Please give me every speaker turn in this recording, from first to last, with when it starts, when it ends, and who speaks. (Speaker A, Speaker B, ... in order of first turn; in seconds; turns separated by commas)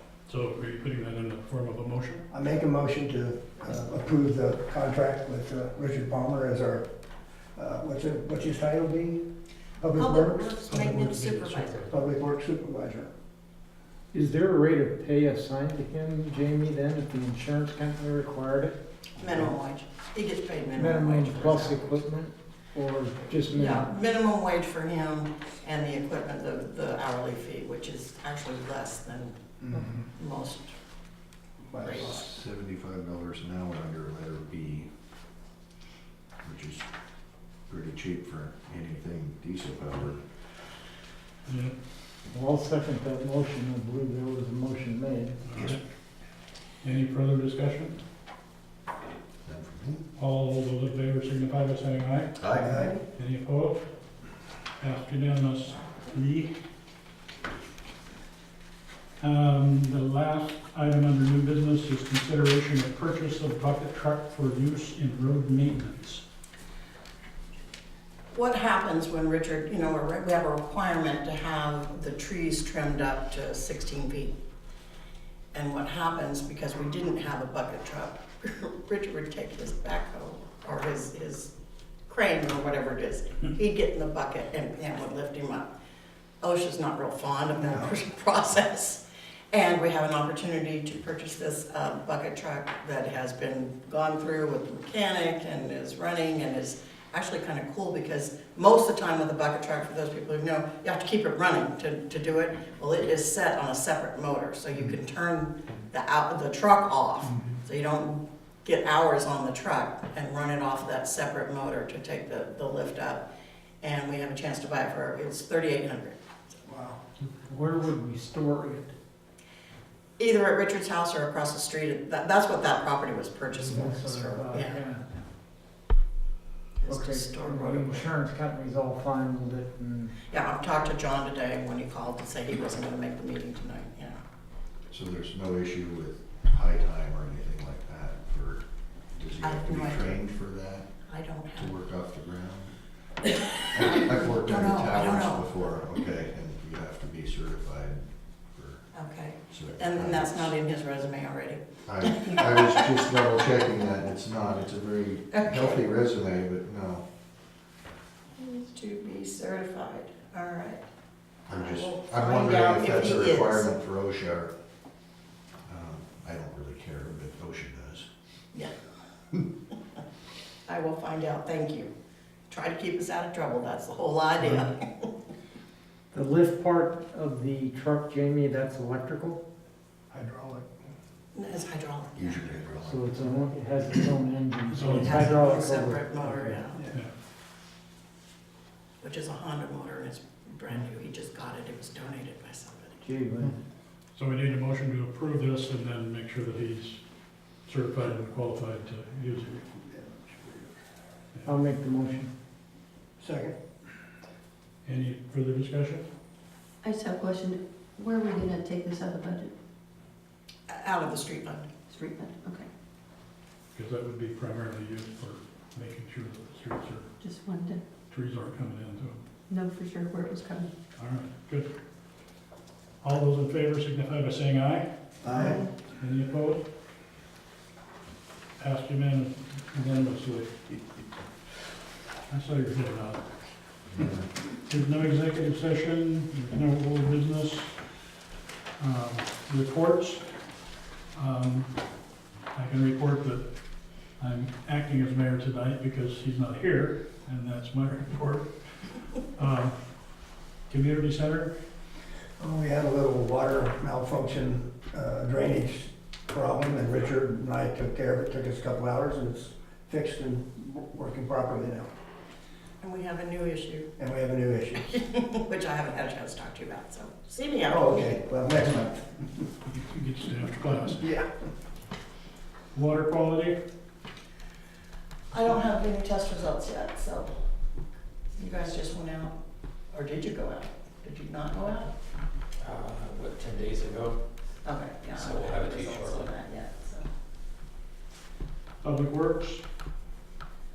Speaker A: 0.3-2.2, Speaker B: 2.3-6.9, Speaker B: 7.5-9.2, Speaker B: 9.8-10.7, Speaker C: 9.9-12.0, Speaker A: 10.7-11.9, Speaker B: 11.9-13.1, Speaker D: 14.1-18.8, Speaker C: 19.2-22.0, Speaker D: 20.7-23.9, Speaker C: 23.5-29.4, Speaker B: 29.6-30.1, Speaker C: 30.1-30.7, Speaker B: 31.6-32.2, Speaker C: 31.8-32.2, Speaker E: 31.9-34.9, Speaker E: 36.4-36.8, Speaker E: 37.7-40.2, Speaker A: 41.5-41.7, Speaker D: 42.3-45.4, Speaker A: 45.5-45.8, Speaker A: 46.8-48.0, Speaker E: 49.4-50.0, Speaker A: 50.1-52.4, Speaker E: 52.4-52.8, Speaker B: 52.5-52.9, Speaker F: 52.7-53.0, Speaker A: 53.1-53.8, Speaker A: 54.8-56.5, Speaker A: 59.2-66.2, Speaker C: 68.3-74.3, Speaker C: 75.5-81.5, Speaker C: 82.1-85.7, Speaker C: 86.4-89.0, Speaker B: 87.6-87.9, Speaker C: 89.5-113.2, Speaker C: 113.8-116.2, Speaker B: 116.7-117.0, Speaker D: 117.5-118.9, Speaker C: 120.2-124.8, Speaker D: 123.5-125.0, Speaker C: 126.8-128.1, Speaker D: 126.9-130.1, Speaker C: 130.2-134.2, Speaker E: 134.9-138.6, Speaker E: 139.2-140.9, Speaker C: 139.4-140.2, Speaker C: 141.1-141.7, Speaker E: 141.5-142.7, Speaker C: 143.3-145.7, Speaker E: 143.7-148.8, Speaker C: 148.9-153.0, Speaker E: 149.5-150.5, Speaker E: 151.8-157.0, Speaker C: 155.3-155.8, Speaker C: 158.4-160.8, Speaker E: 161.5-164.5, Speaker C: 161.5-163.7, Speaker E: 165.7-168.1, Speaker C: 170.7-171.9, Speaker C: 172.5-175.1, Speaker A: 174.4-174.6, Speaker D: 176.1-179.4, Speaker B: 180.1-180.7, Speaker C: 181.3-182.4, Speaker E: 182.1-183.2, Speaker D: 182.8-186.6, Speaker A: 184.7-185.5, Speaker C: 184.9-186.8, Speaker C: 189.0-193.0, Speaker D: 193.0-193.6, Speaker A: 194.1-197.0, Speaker A: 197.7-199.6, Speaker B: 199.7-200.7, Speaker D: 201.4-202.3, Speaker B: 203.2-203.6, Speaker A: 204.8-206.0, Speaker F: 206.8-209.5, Speaker C: 210.7-211.7, Speaker F: 211.9-212.7, Speaker A: 213.7-217.1, Speaker F: 217.2-217.8, Speaker A: 218.1-219.2, Speaker F: 219.5-220.7, Speaker A: 220.9-221.7, Speaker A: 223.0-226.6, Speaker B: 225.2-225.6, Speaker F: 225.3-225.7, Speaker A: 228.6-230.5, Speaker A: 232.3-233.2, Speaker A: 234.6-237.8, Speaker A: 238.8-240.2, Speaker A: 241.1-241.7, Speaker A: 242.5-243.4, Speaker A: 244.2-248.5, Speaker A: 249.2-249.7, Speaker A: 250.7-251.5, Speaker B: 252.4-261.9, Speaker C: 262.8-263.9, Speaker B: 264.0-264.9, Speaker C: 264.8-268.1, Speaker B: 267.7-269.1, Speaker A: 269.7-271.1, Speaker B: 271.0-271.3, Speaker A: 272.7-273.6, Speaker C: 275.3-277.3, Speaker C: 278.4-279.3, Speaker C: 279.9-281.9, Speaker G: 282.6-284.2, Speaker C: 284.6-287.0, Speaker G: 285.1-286.3, Speaker A: 288.8-289.6